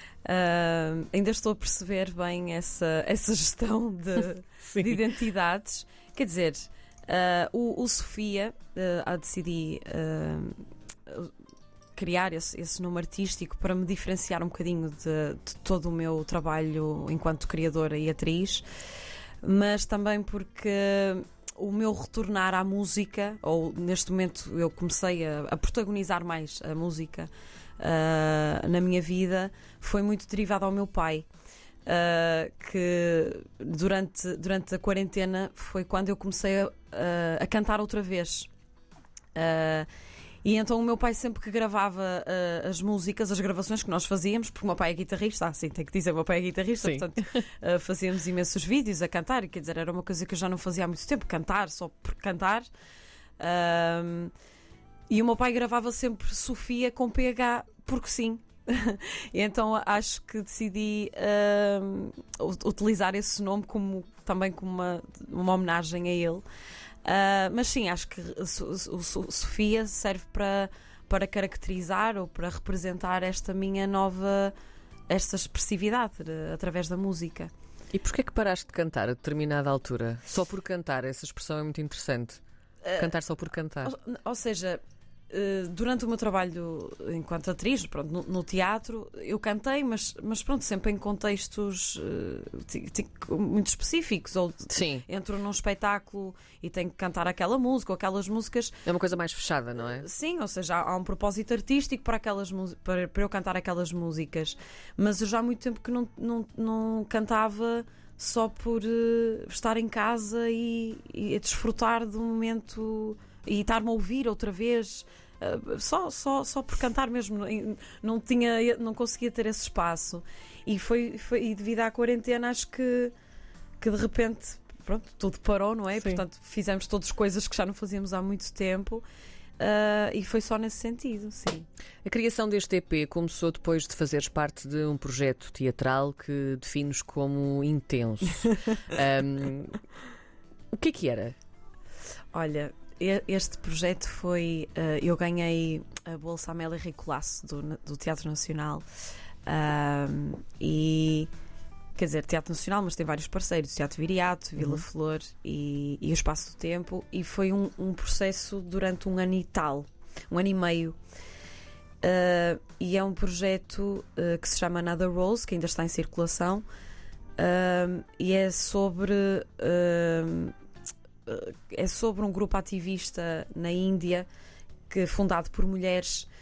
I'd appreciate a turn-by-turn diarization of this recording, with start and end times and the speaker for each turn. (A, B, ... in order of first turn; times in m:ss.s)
0:00.2-0:11.3 A
0:04.7-0:05.0 B
0:11.9-0:18.6 A
0:19.4-0:31.3 A
0:31.8-0:38.5 A
0:39.3-0:39.9 A
0:40.4-0:52.7 A
0:46.8-0:47.2 B
0:53.4-0:54.3 A
0:55.1-1:06.4 A
1:07.0-1:14.5 A
1:15.1-1:17.5 A
1:17.9-1:22.4 B
1:22.8-1:23.1 A
1:23.0-1:23.9 B
1:23.8-1:38.8 A
1:34.7-1:35.0 B
1:38.8-1:40.0 B
1:40.0-2:03.1 A
2:03.8-2:09.1 A
2:09.6-2:11.7 A
2:12.0-2:19.8 B
2:20.7-2:21.4 B
2:22.3-2:28.8 A
2:29.5-2:31.3 A
2:32.0-2:41.0 A
2:34.6-2:34.8 B
2:42.0-2:46.7 A
2:47.4-2:50.5 A
2:51.3-2:54.3 A
2:54.9-2:56.3 A